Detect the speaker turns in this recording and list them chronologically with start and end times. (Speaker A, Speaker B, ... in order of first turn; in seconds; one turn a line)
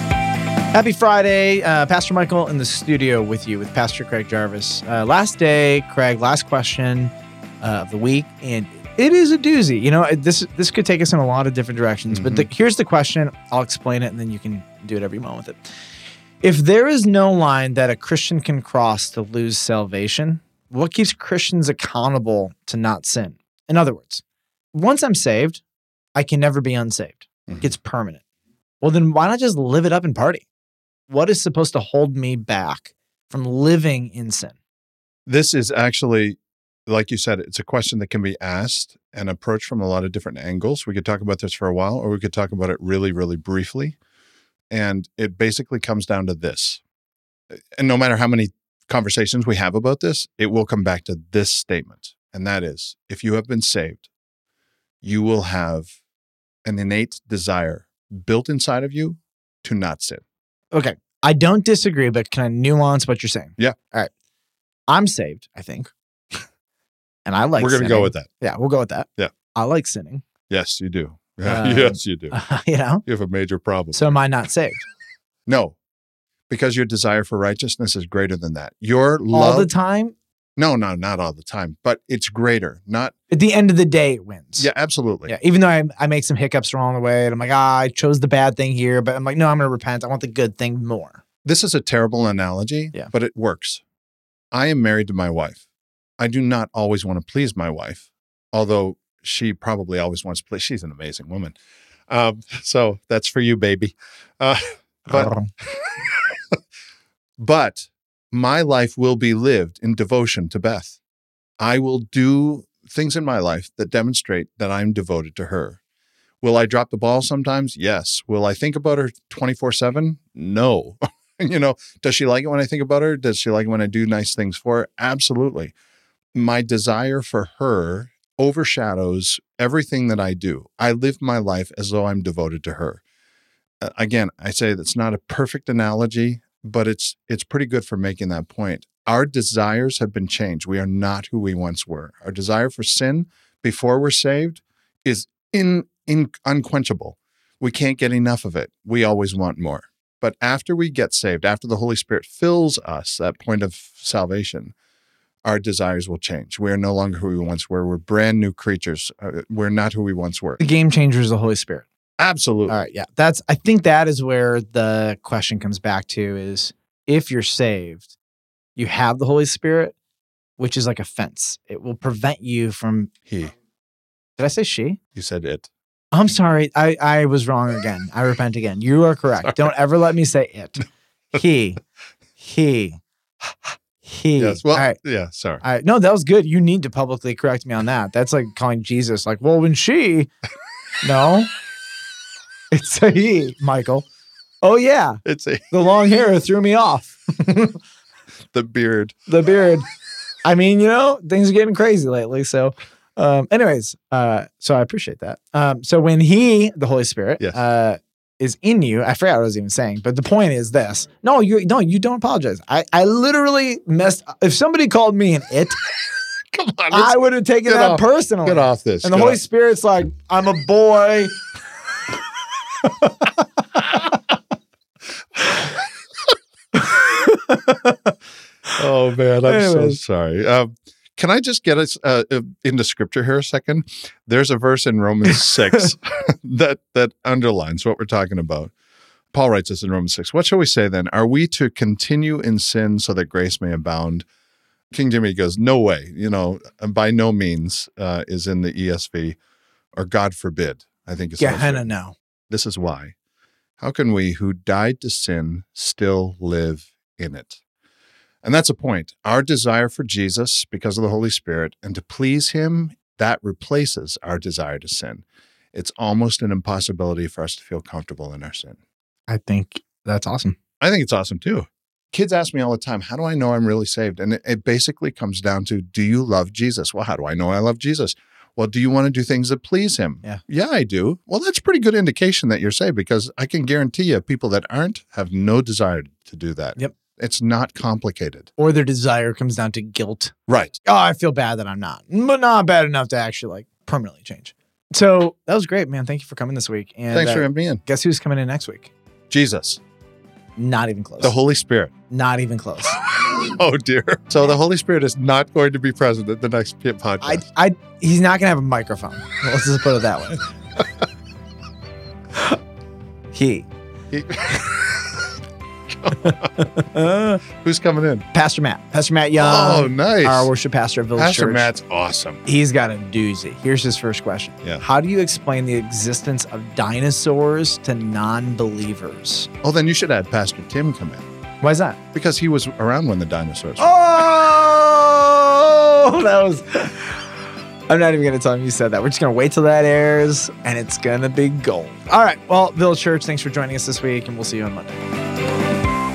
Speaker A: 0.7-15.7
Speaker B: 12.1-12.5
Speaker A: 16.4-25.6
Speaker A: 26.1-28.2
Speaker A: 28.8-30.4
Speaker A: 31.1-34.5
Speaker B: 35.3-44.0
Speaker B: 44.7-46.8
Speaker B: 47.8-54.1
Speaker B: 55.0-55.9
Speaker B: 56.6-60.2
Speaker A: 60.7-64.1
Speaker A: 64.9-66.4
Speaker A: 67.2-70.2
Speaker B: 67.6-68.3
Speaker B: 70.5-72.4
Speaker A: 71.4-73.0
Speaker B: 73.0-74.1
Speaker A: 73.9-74.8
Speaker B: 75.5-75.8
Speaker B: 76.5-79.7
Speaker A: 79.3-80.1
Speaker B: 80.6-83.1
Speaker A: 83.3-84.7
Speaker B: 84.6-85.3
Speaker A: 85.2-91.2
Speaker B: 91.4-93.8
Speaker B: 94.5-95.6
Speaker B: 96.2-101.6
Speaker B: 102.1-106.2
Speaker A: 105.1-105.5
Speaker B: 107.4-111.0
Speaker B: 111.6-115.8
Speaker B: 116.4-125.7
Speaker B: 126.3-133.0
Speaker B: 133.8-154.7
Speaker B: 155.4-160.6
Speaker A: 160.6-161.9
Speaker B: 162.2-162.8
Speaker A: 162.7-168.1
Speaker A: 168.8-169.9
Speaker A: 170.6-173.1
Speaker B: 173.3-173.5
Speaker A: 174.4-175.0
Speaker B: 175.2-175.7
Speaker A: 176.1-181.8
Speaker A: 182.4-183.0
Speaker A: 183.7-185.0
Speaker B: 184.4-185.6
Speaker A: 185.6-190.3
Speaker A: 191.0-191.5
Speaker A: 192.7-194.1
Speaker A: 194.6-197.8
Speaker B: 195.2-195.7
Speaker B: 198.5-199.1
Speaker A: 199.3-199.8
Speaker A: 200.4-215.8
Speaker B: 216.5-219.4
Speaker A: 216.9-221.3
Speaker A: 222.8-223.8
Speaker A: 226.8-228.1
Speaker B: 228.8-238.7
Speaker A: 229.5-230.0
Speaker A: 235.4-235.9
Speaker B: 239.3-244.2
Speaker B: 244.9-249.4
Speaker B: 249.9-251.9
Speaker A: 251.4-252.1
Speaker B: 252.5-253.1
Speaker B: 253.8-257.6
Speaker B: 258.4-268.8
Speaker A: 269.3-270.6
Speaker B: 270.8-288.5
Speaker A: 288.6-290.3
Speaker B: 290.5-290.8
Speaker A: 290.8-298.9
Speaker B: 297.1-297.8
Speaker B: 299.3-299.8
Speaker A: 300.6-301.4
Speaker B: 301.2-301.9
Speaker A: 302.1-303.0
Speaker B: 303.2-307.4
Speaker A: 307.2-310.4
Speaker A: 313.3-313.7
Speaker B: 314.1-315.0
Speaker B: 316.0-316.6
Speaker A: 316.3-317.4
Speaker B: 317.6-318.2
Speaker A: 318.3-321.7
Speaker B: 319.4-320.5
Speaker B: 321.1-322.4
Speaker A: 322.4-329.5
Speaker B: 329.6-331.2
Speaker A: 331.6-332.0
Speaker B: 332.1-333.9
Speaker A: 333.8-337.3
Speaker A: 337.9-345.0